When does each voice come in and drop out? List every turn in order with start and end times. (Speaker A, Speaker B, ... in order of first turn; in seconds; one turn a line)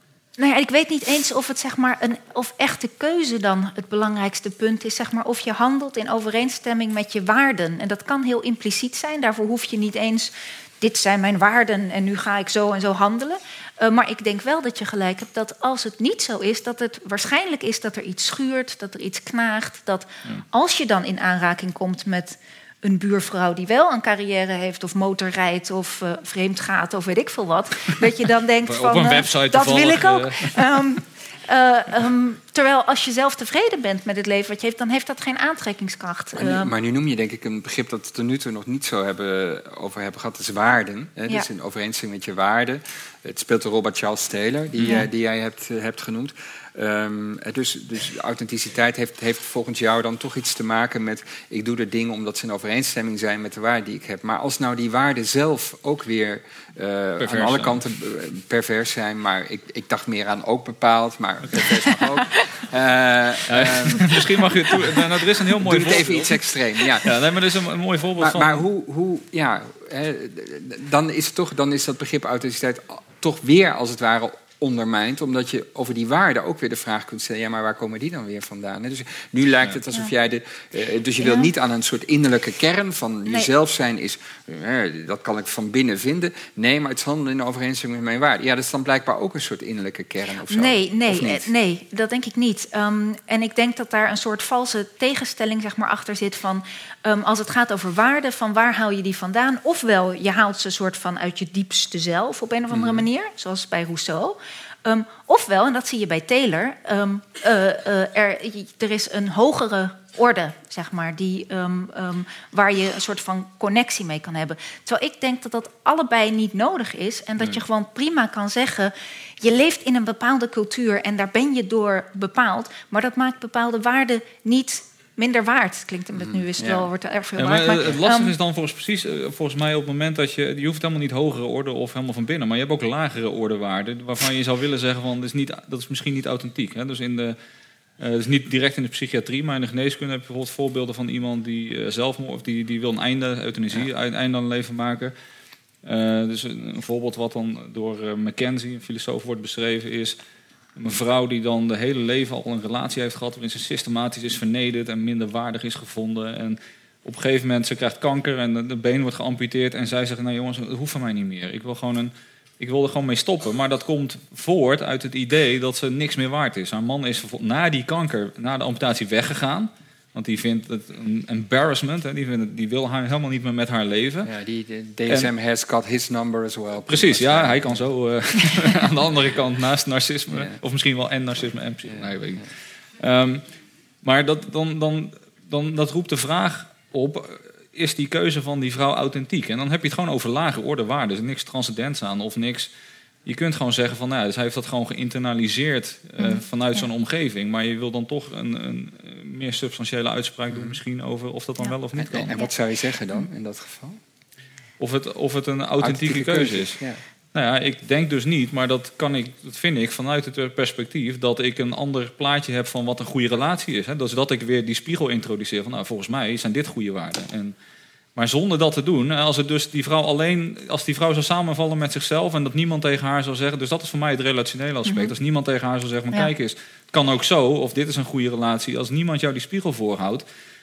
Speaker A: 0.4-36.7
Speaker B: 28.6-30.6
Speaker C: 36.3-64.2
Speaker A: 44.8-45.1
Speaker B: 57.2-57.8
Speaker B: 61.4-62.0
Speaker B: 63.5-66.4
Speaker C: 65.5-67.2
Speaker B: 67.0-68.6
Speaker C: 68.2-91.5
Speaker A: 81.2-81.5
Speaker A: 90.5-128.3
Speaker C: 102.7-103.1
Speaker C: 126.1-126.9
Speaker B: 127.4-137.4
Speaker B: 138.0-145.1
Speaker B: 145.8-150.2
Speaker B: 150.8-174.3
Speaker C: 174.2-177.9
Speaker B: 176.9-182.4
Speaker C: 180.3-180.6
Speaker C: 181.8-182.4
Speaker B: 183.0-183.4
Speaker B: 184.0-192.7
Speaker B: 193.2-202.3
Speaker A: 196.2-196.8
Speaker C: 200.5-200.8
Speaker C: 201.9-204.0
Speaker B: 204.8-206.8
Speaker C: 205.8-207.0
Speaker B: 207.3-217.5
Speaker B: 218.2-230.2
Speaker A: 224.8-225.1